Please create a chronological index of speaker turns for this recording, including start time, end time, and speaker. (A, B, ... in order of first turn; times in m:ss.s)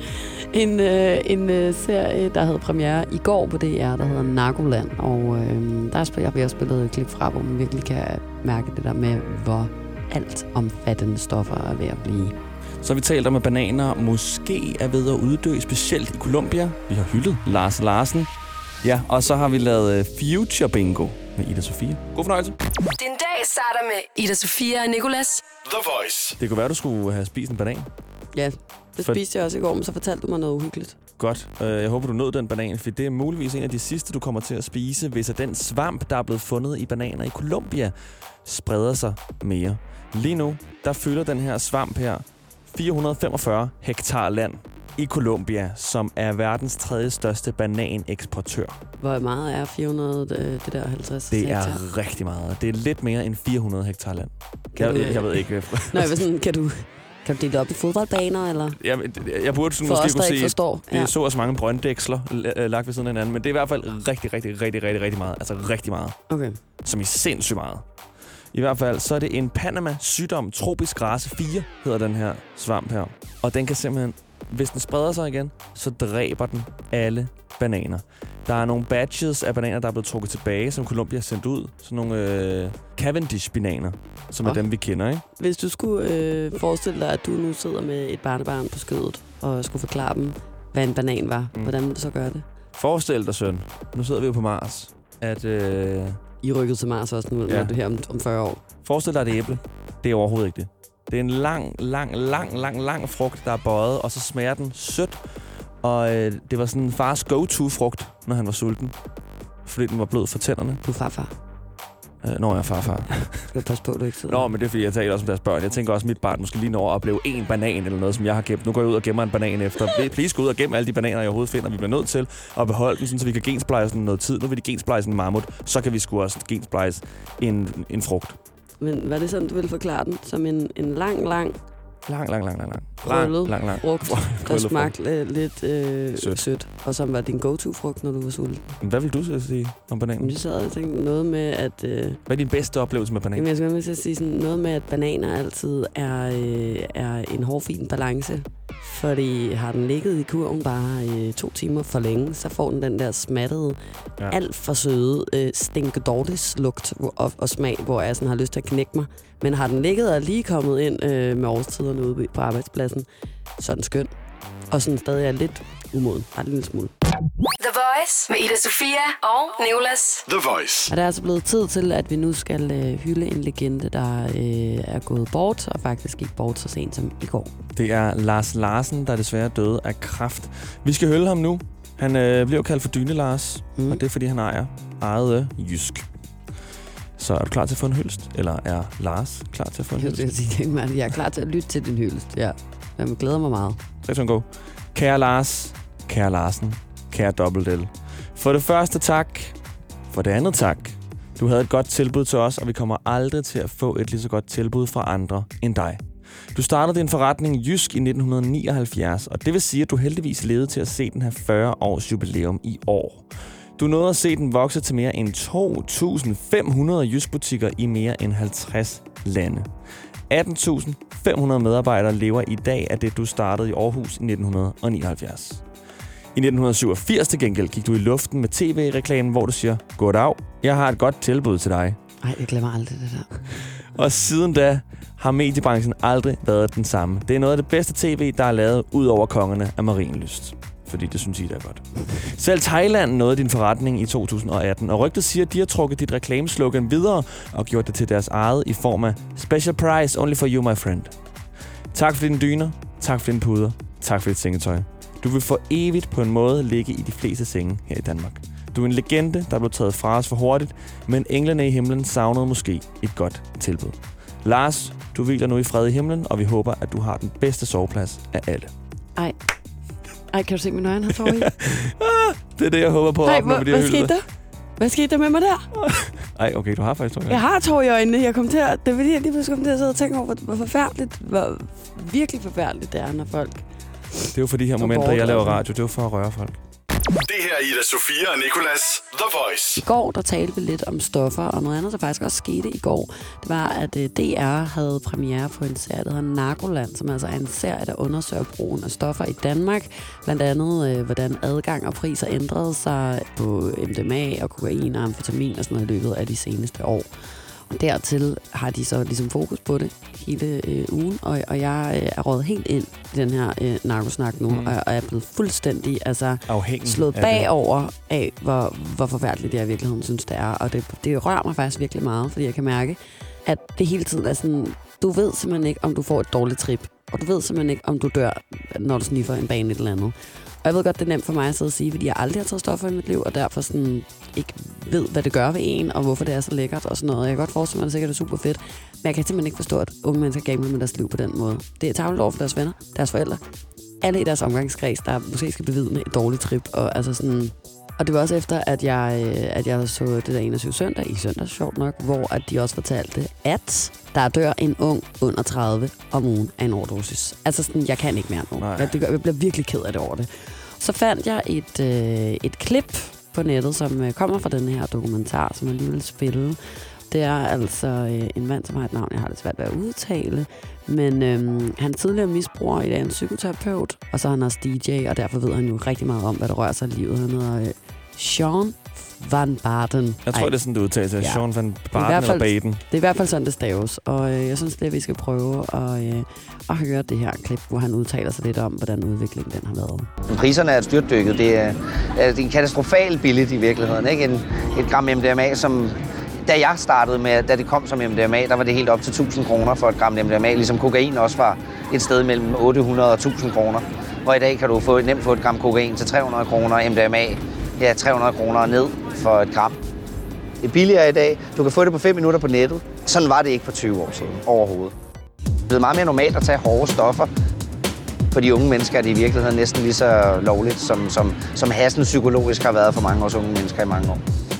0:00.2-0:12.4 A
0:12.8-0:18.3 B
0:18.8-0:22.6 B
0:23.0-0:25.4 C
0:25.6-0:26.4 D
0:26.4-0:27.9 B
0:28.3-0:31.0 A
0:31.2-0:48.8 B
0:49.0-0:51.8 A
0:51.3-0:56.2 B
0:54.7-0:58.8 A
0:58.8-1:06.2 B
0:59.8-1:01.1 A
1:06.3-1:06.6 A
1:06.8-1:07.9 B
1:08.5-1:25.2 B
1:25.4-1:32.4 A
1:32.7-1:36.2 B
1:36.4-1:38.6 A
1:37.5-1:37.7 B
1:38.8-1:45.2 B
1:45.8-1:48.9 B
1:49.6-1:50.8 B
1:50.8-1:51.3 A
1:52.2-1:53.5 B
1:53.5-1:54.5 A
1:54.3-2:08.4 B
2:08.8-2:11.6 A
2:12.0-2:14.9 B
2:13.0-2:18.7 A
2:16.2-2:16.4 B
2:18.8-2:20.3 B
2:20.2-2:22.2 A
2:22.3-2:23.5 B
2:23.3-2:43.1 A
2:43.6-2:44.1 A
2:44.7-2:46.9 A
2:47.6-2:50.2 C
2:50.3-2:50.9 D
2:50.9-2:57.5 A
2:57.7-3:06.0 B
3:03.8-3:04.0 A
3:07.2-3:10.3 B
3:10.0-3:13.8 A
3:14.0-3:19.6 B
3:20.1-3:39.7 B
3:40.3-3:45.6 B
3:46.3-3:52.0 B
3:52.2-3:53.6 A
3:53.7-4:11.1 B
4:11.9-4:28.7 B
4:30.3-4:31.5 A
4:31.1-4:34.1 B
4:33.2-4:34.2 A
4:34.8-4:35.7 A
4:35.7-4:37.4 B
4:37.3-4:45.6 A
4:44.3-4:46.6 B
4:47.2-4:49.8 D
4:49.8-5:07.1 A
5:07.7-5:43.4 A
5:14.5-5:14.8 B
5:16.5-5:17.5 B
5:44.0-6:06.6 A
5:58.6-5:58.9 B
6:07.1-6:20.5 A
6:20.2-6:22.8 B
6:21.2-6:30.1 A
6:30.3-6:49.8 E
6:50.6-6:54.9 E
6:55.7-6:57.3 E
6:58.3-7:04.2 E